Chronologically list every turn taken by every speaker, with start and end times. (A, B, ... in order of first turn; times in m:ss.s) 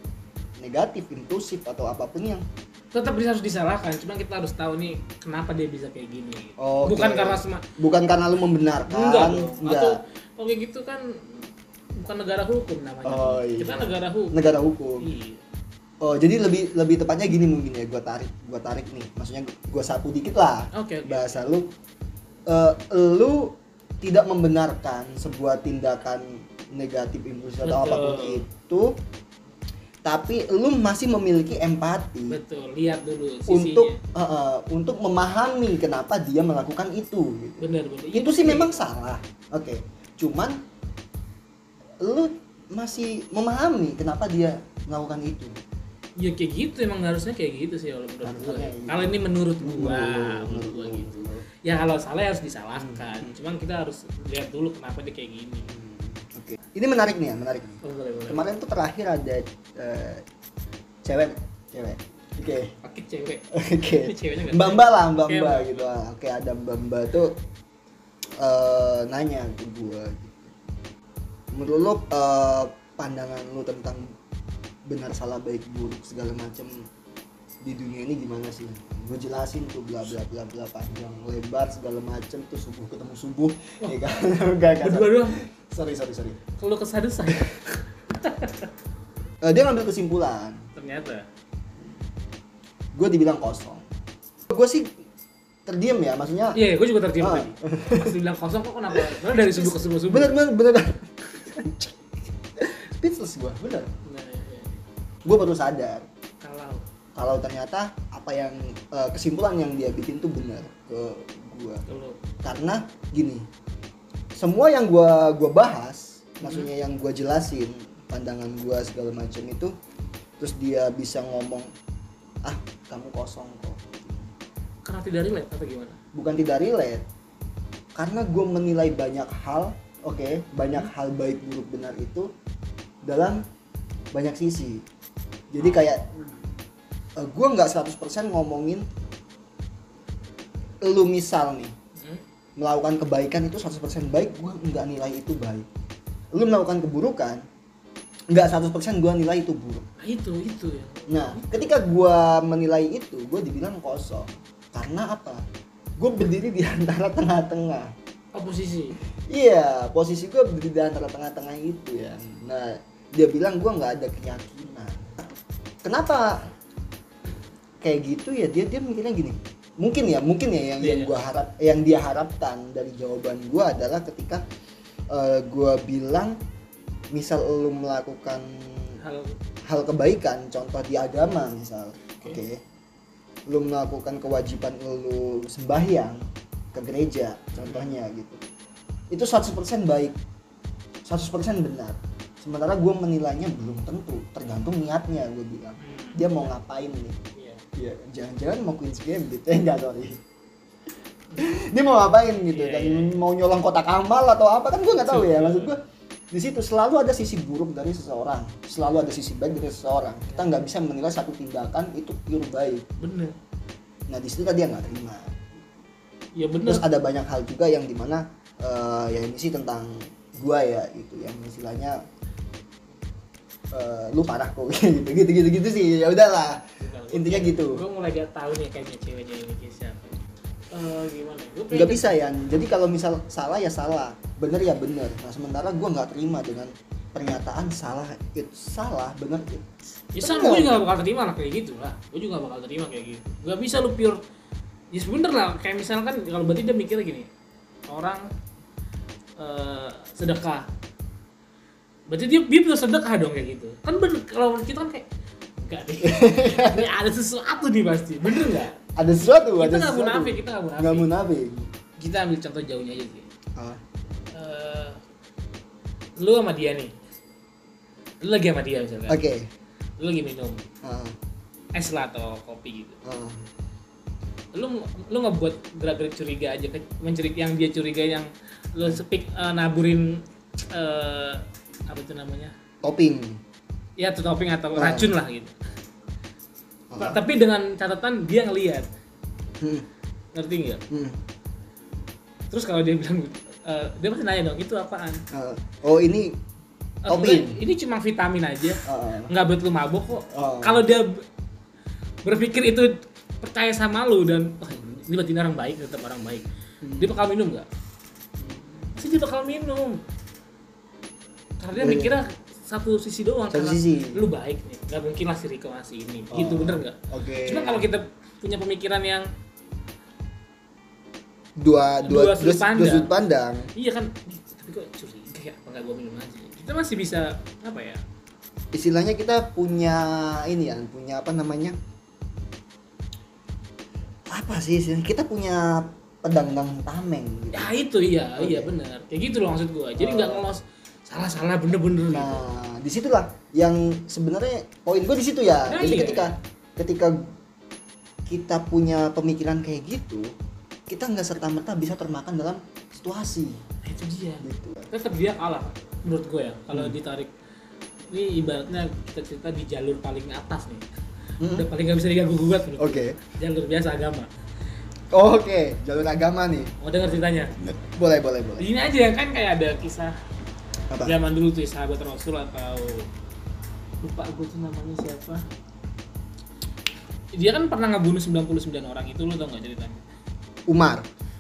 0:00.6-0:02.4 A
0:02.9-0:07.6 B
0:06.6-0:10.0 A
0:08.9-0:11.4 B
0:12.0-0:14.4 B
0:13.0-0:15.1 A
0:15.0-0:15.4 B
0:16.0-0:21.7 A
0:20.7-0:21.5 B
0:22.5-0:29.0 A
0:27.6-0:28.4 B
0:30.0-0:32.4 A
0:32.3-0:34.0 B
0:33.5-0:40.6 A
0:37.6-0:38.8 B
0:42.0-0:45.5 A
0:46.2-0:55.7 B
0:48.2-0:51.4 A
0:52.8-0:53.3 A
0:55.7-1:00.2 A
0:57.8-0:58.5 B
1:01.0-1:02.7 A
1:02.8-1:05.9 B
1:03.5-1:07.4 A
1:08.4-1:10.5 A
1:11.5-1:14.1 A
1:14.8-1:16.9 A
1:17.6-1:26.4 A
1:24.8-1:25.4 B
1:26.6-1:28.7 B
1:29.4-1:30.6 A
1:30.8-1:31.2 B
1:33.0-1:33.8 A
1:34.5-1:34.9 A
1:35.6-1:36.6 A
1:36.5-1:40.4 B
1:37.2-1:38.1 A
1:38.9-1:43.9 A
1:44.0-1:44.8 B
1:45.2-1:46.0 A
1:46.4-1:46.8 B
1:47.1-1:51.8 A
1:51.9-1:52.2 B
1:52.4-1:53.4 A
1:54.3-1:59.7 A
1:56.4-1:56.7 B
2:00.4-2:01.7 A
2:02.4-2:04.3 A
2:04.8-2:06.0 B
2:06.1-2:07.0 A
2:08.0-2:12.3 A
2:13.0-2:13.4 A
2:14.1-2:14.8 A
2:15.5-2:16.1 A
2:15.6-2:15.9 B
2:17.2-2:18.9 A
2:20.8-2:21.7 A
2:22.0-2:22.2 B
2:22.6-2:25.6 A
2:26.3-2:27.4 A
2:28.3-2:29.8 A
2:30.0-2:31.6 B
2:31.1-2:35.4 A
2:36.0-2:37.9 A
2:38.3-2:39.0 B
2:39.2-2:46.4 A
2:47.8-2:54.4 A
2:50.8-2:51.1 B
2:55.1-2:56.4 A
2:57.1-2:59.0 A
2:59.0-2:59.4 B
2:59.6-3:02.6 A
3:03.5-3:06.2 A
3:06.7-3:08.4 A
3:07.6-3:07.9 B
3:09.1-3:10.2 A
3:11.0-3:17.2 A
3:15.8-3:16.2 B
3:17.4-3:17.6 B
3:17.8-3:20.2 A
3:21.4-3:32.9 A
3:22.3-3:23.2 B
3:24.9-3:25.8 B
3:33.0-3:33.4 B
3:34.1-3:35.4 A
3:36.3-3:36.8 B
3:36.6-3:42.0 A
3:43.7-3:47.8 A
3:46.8-3:50.2 B
3:50.7-3:52.1 B
3:51.7-4:00.8 A
4:00.1-4:04.2 B
4:04.9-4:07.3 B
4:07.9-4:08.3 B
4:09.4-4:10.7 B
4:12.1-4:18.8 B
4:16.0-4:16.9 A
4:18.3-4:21.7 A
4:19.3-4:21.1 B
4:22.0-4:23.3 B
4:23.6-4:23.8 A
4:24.3-4:25.0 B
4:26.2-4:26.9 B
4:28.2-4:29.2 B
4:29.1-4:29.5 A
4:30.0-4:30.6 B
4:30.8-4:31.2 A
4:31.7-4:33.0 B
4:33.0-4:33.5 A
4:34.5-4:42.5 B
4:42.8-4:43.4 A
4:44.0-4:45.5 B
4:44.8-4:45.1 A
4:46.9-4:47.2 A
4:47.0-4:48.9 B
4:49.6-4:49.8 A
4:50.3-4:50.8 B
4:50.9-4:51.2 A
4:52.5-4:55.2 B
4:55.3-4:56.4 A
4:57.0-5:01.2 B
4:57.1-4:57.6 A
4:58.8-4:59.3 A
5:00.3-5:00.8 A
5:02.2-5:07.7 B
5:06.8-5:07.1 A
5:08.9-5:10.0 B
5:11.6-5:19.3 B
5:11.7-5:12.1 A
5:13.5-5:14.2 A
5:16.3-5:17.9 A
5:21.6-5:23.7 A
5:22.0-5:23.2 B
5:23.8-5:28.0 B
5:28.7-5:31.8 A
5:34.3-5:37.7 A
5:37.5-5:42.4 B
5:38.4-5:38.7 A
5:40.0-5:40.5 A
5:42.1-5:47.2 A
5:45.6-5:46.3 B
5:48.2-5:50.3 A
5:50.9-5:53.6 A
5:53.8-5:57.3 B
5:54.4-5:54.9 A
5:58.1-6:00.8 B
6:01.4-6:01.7 A
6:01.5-6:04.3 B
6:02.8-6:03.2 A
6:05.1-6:06.7 A
6:06.8-6:07.6 B
6:07.6-6:08.7 A
6:08.6-6:10.2 B
6:10.9-6:11.2 A
6:11.0-6:13.0 B
6:14.0-6:15.4 B
6:17.3-6:20.0 B
6:20.7-6:21.0 A